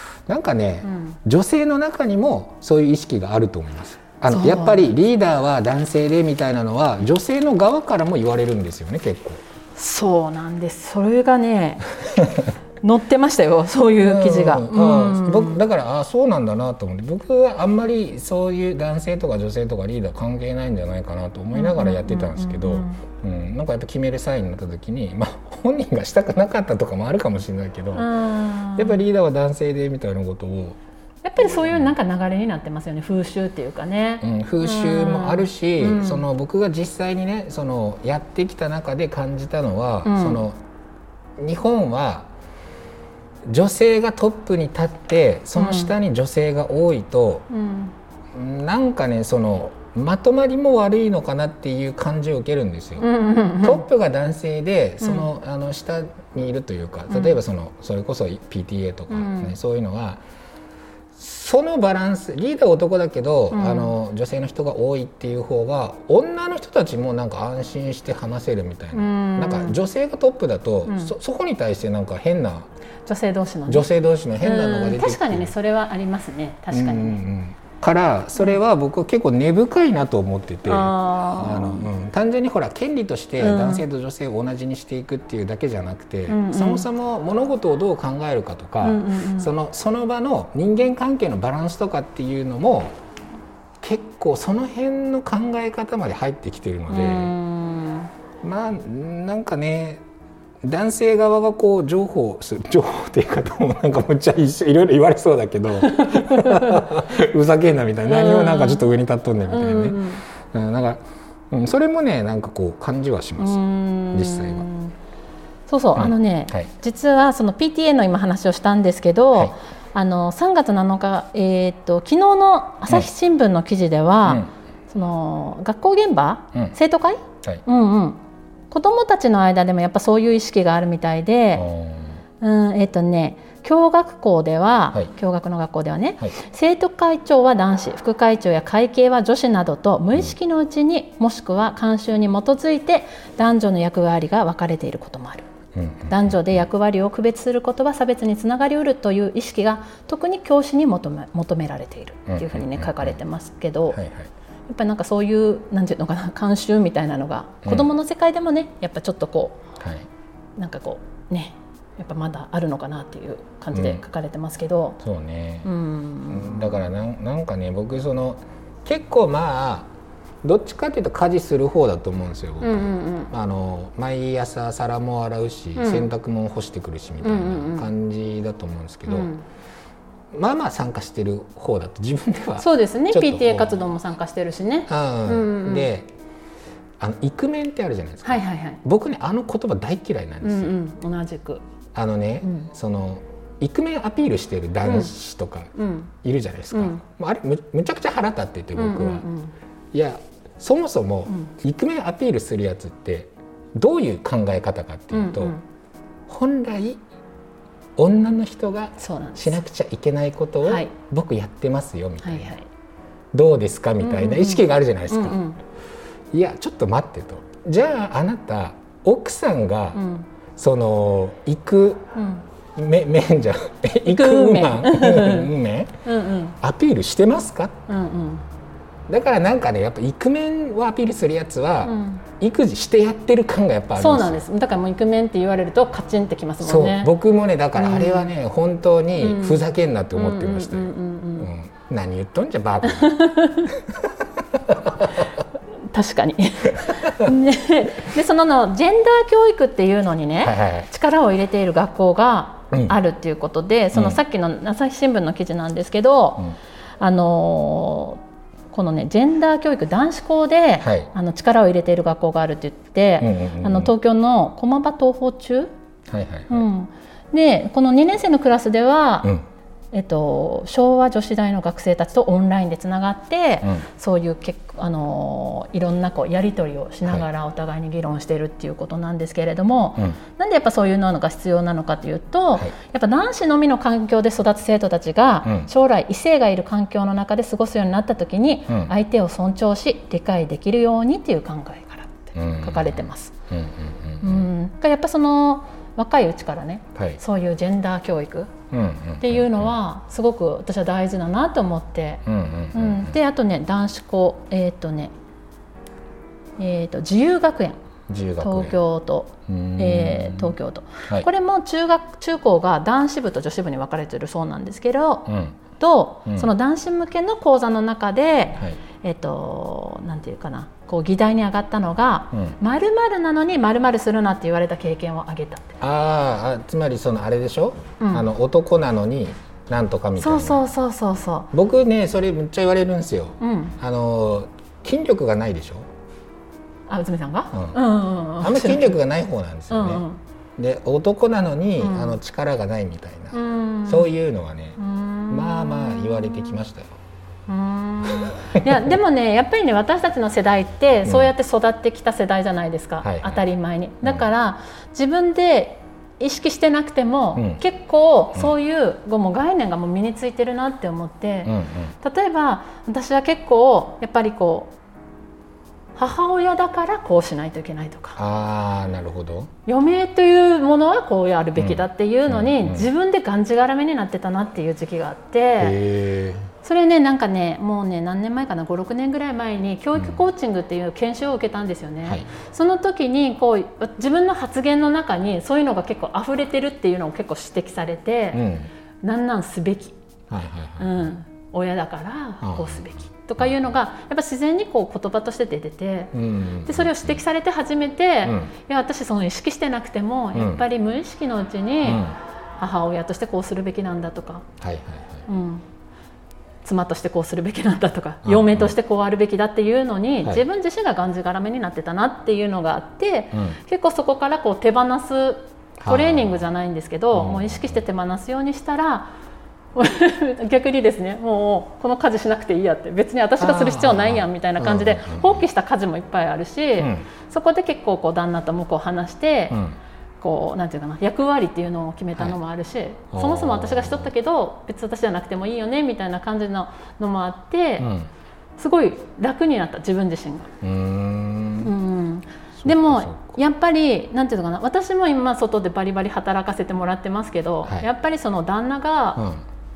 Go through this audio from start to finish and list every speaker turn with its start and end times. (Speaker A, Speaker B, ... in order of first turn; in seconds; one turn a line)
Speaker A: 0.3-9.4
Speaker B: 0.8-1.2
Speaker B: 4.3-4.9
Speaker B: 9.8-11.8
Speaker A: 12.0-12.5
Speaker B: 12.8-15.6
Speaker A: 14.0-28.1
Speaker B: 21.5-23.0
Speaker B: 27.9-29.0
Speaker A: 28.8-30.8
Speaker B: 31.2-36.2
Speaker A: 31.4-31.9
Speaker A: 34.2-40.6
Speaker B: 40.0-40.4
Speaker A: 41.4-42.3
Speaker A: 43.5-47.5
Speaker B: 45.5-45.9
Speaker B: 47.5-47.9
Speaker A: 48.3-53.0
Speaker B: 53.0-53.9
Speaker A: 53.6-60.2
Speaker B: 55.0-55.3
Speaker B: 57.1-57.4
Speaker B: 59.1-59.5
Speaker A: 61.1-72.7
Speaker B: 63.5-63.9
Speaker B: 68.9-69.8
Speaker B: 70.8-71.1
Speaker B: 73.0-73.9
Speaker A: 73.7-75.5
Speaker B: 74.4-77.2
Speaker A: 76.7-93.0
Speaker B: 80.7-81.9
Speaker B: 83.4-83.8
Speaker B: 86.3-86.9
Speaker B: 88.8-89.5
Speaker A: 93.8-97.3
Speaker B: 96.9-98.1
Speaker A: 98.4-100.0
Speaker A: 100.6-114.7
Speaker B: 105.9-106.8
Speaker B: 108.0-108.8
Speaker B: 109.5-110.2
Speaker B: 113.4-114.9
Speaker B: 115.7-128.2
Speaker A: 116.0-116.7
Speaker A: 124.2-124.5
Speaker B: 128.7-131.7
Speaker A: 131.5-132.2
Speaker B: 132.4-145.5
Speaker A: 145.7-146.6
Speaker B: 146.1-154.0
Speaker A: 152.3-153.2
Speaker A: 153.9-154.3
Speaker B: 154.7-159.6
Speaker A: 157.6-157.9
Speaker A: 159.8-160.1
Speaker B: 160.6-165.0
Speaker A: 163.7-164.0
Speaker A: 165.0-165.7
Speaker B: 165.6-166.8
Speaker A: 166.3-169.9
Speaker A: 170.4-172.8
Speaker B: 172.6-173.3
Speaker A: 173.3-179.3
Speaker B: 175.8-176.1
Speaker B: 177.2-177.9
Speaker B: 179.1-179.4
Speaker A: 180.3-183.8
Speaker B: 182.6-185.9
Speaker A: 184.9-186.1
Speaker A: 187.0-190.7
Speaker B: 188.2-188.8
Speaker B: 190.4-191.6
Speaker A: 191.9-199.2
Speaker B: 194.8-195.1
Speaker B: 195.8-196.1
Speaker B: 196.7-197.0
Speaker B: 198.7-199.5
Speaker A: 199.9-205.5
Speaker B: 205.1-205.6
Speaker A: 206.3-207.0
Speaker A: 208.0-212.5
Speaker B: 209.0-209.6
Speaker B: 210.6-210.9
Speaker B: 212.2-212.7
Speaker A: 213.3-215.4
Speaker B: 214.0-215.6
Speaker A: 216.3-220.0
Speaker B: 219.9-220.3
Speaker A: 220.6-222.1
Speaker B: 222.1-222.4
Speaker A: 222.8-226.0
Speaker B: 224.1-225.5
Speaker B: 226.0-226.6
Speaker A: 226.6-227.8
Speaker B: 227.9-228.4
Speaker A: 229.1-234.4
Speaker B: 231.8-232.2
Speaker B: 233.9-237.1
Speaker A: 236.6-243.2
Speaker B: 237.8-238.3
Speaker B: 239.2-239.6
Speaker B: 240.1-241.5
Speaker B: 242.8-243.7
Speaker A: 243.7-245.3
Speaker B: 245.9-258.2
Speaker A: 246.8-247.3
Speaker A: 250.4-250.9
Speaker A: 253.9-254.2
Speaker B: 258.7-265.7
Speaker A: 260.8-261.1
Speaker A: 263.2-263.9
Speaker A: 266.1-266.6
Speaker B: 266.5-269.3
Speaker B: 269.9-293.3
Speaker A: 292.4-294.5
Speaker B: 294.2-298.5
Speaker A: 298.7-299.7
Speaker B: 299.2-302.2
Speaker A: 302.2-303.1
Speaker B: 302.7-305.1
Speaker B: 306.6-307.8
Speaker A: 308.1-308.8
Speaker B: 308.4-325.7
Speaker A: 309.5-310.5
Speaker A: 315.2-315.6
Speaker A: 325.8-330.6
Speaker B: 328.0-328.2
Speaker B: 330.2-331.5
Speaker A: 331.5-335.9
Speaker B: 333.4-333.8
Speaker B: 336.9-339.0
Speaker A: 337.5-337.8
Speaker A: 338.4-340.0
Speaker B: 339.7-340.2
Speaker A: 340.6-344.8
Speaker B: 341.8-342.2
Speaker B: 343.3-344.1
Speaker B: 344.8-346.6
Speaker A: 345.3-346.9
Speaker B: 347.5-364.7
Speaker A: 348.1-348.7
Speaker A: 351.1-351.3
Speaker A: 353.0-353.4
Speaker A: 361.4-361.9
Speaker B: 365.9-368.2
Speaker A: 368.1-369.5
Speaker B: 369.6-375.8
Speaker A: 371.6-372.9
Speaker A: 375.6-376.5
Speaker B: 376.6-388.5
Speaker A: 388.3-388.7
Speaker B: 389.0-389.9
Speaker A: 390.3-391.1
Speaker B: 390.8-402.0
Speaker A: 392.4-393.5
Speaker A: 396.1-397.2
Speaker A: 398.2-398.5
Speaker A: 400.3-400.6
Speaker A: 401.8-402.1
Speaker B: 402.6-404.4
Speaker A: 404.6-405.2
Speaker B: 405.2-405.6
Speaker B: 406.6-419.1
Speaker A: 408.2-408.7
Speaker A: 415.8-416.4
Speaker A: 417.1-417.8
Speaker B: 419.7-429.6
Speaker A: 423.4-425.4
Speaker A: 426.8-427.0
Speaker A: 429.5-429.8
Speaker B: 430.2-437.9
Speaker A: 433.1-434.1
Speaker A: 437.8-438.1
Speaker B: 438.6-440.5
Speaker A: 440.6-441.7
Speaker B: 441.6-449.2
Speaker A: 442.6-443.4
Speaker A: 449.1-449.4